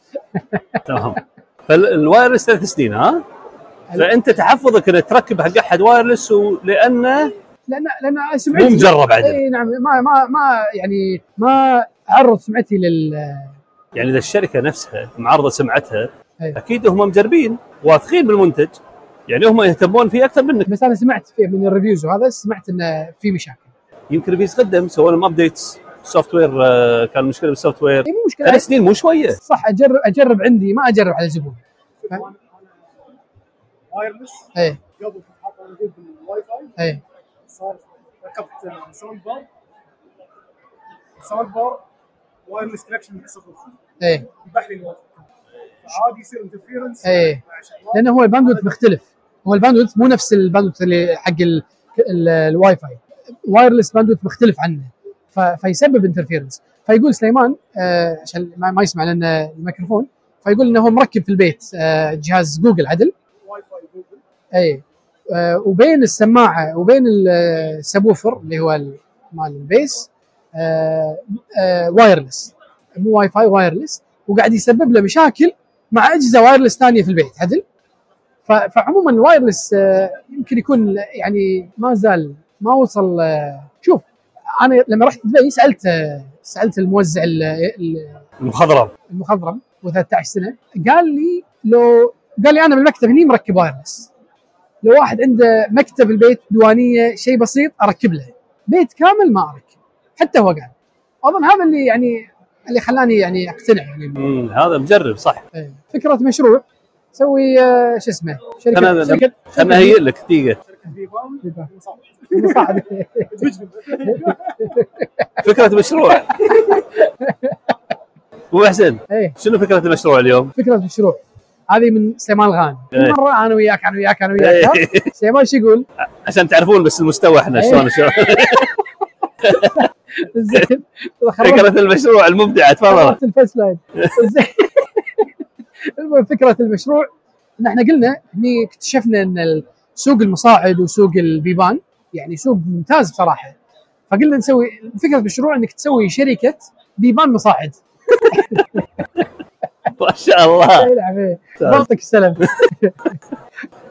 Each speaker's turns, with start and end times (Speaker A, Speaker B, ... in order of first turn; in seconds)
Speaker A: 0.3-0.8, 7.7-13.6, 20.7-23.7, 28.1-28.7, 29.4-31.6, 34.6-34.8, 44.0-44.3, 47.0-47.4, 47.9-63.1, 64.5-77.6, 78.5-84.1, 84.6-88.2, 89.1-94.1, 94.8-100.7, 101.2-104.2, 105.5-110.0, 111.4-111.7, 112.3-113.5, 114.0-115.2, 116.3-117.7, 119.1-119.4, 120.6-125.9, 127.5-128.7, 129.4-131.7, 132.9-135.3, 135.8-143.6, 144.1-147.8, 148.3-148.8, 150.8-153.2
Speaker B: 0.9-3.2, 4.0-7.3, 8.5-9.4, 13.9-18.8, 19.3-20.7, 24.1-29.4, 88.4-88.9, 104.2-105.5, 108.7-110.6, 115.4-116.9, 118.5-120.5, 124.4-125.1, 126.2-128.7, 129.4-129.8, 131.4-133.2, 148.1-148.8, 150.0-150.9, 151.6-151.9, 152.4-152.7
Speaker C: 32.0-32.7, 33.9-36.8, 37.5-39.5, 41.2-41.8, 42.5-43.8, 44.4-45.3, 45.9-48.7, 63.4-64.2, 110.7-114.8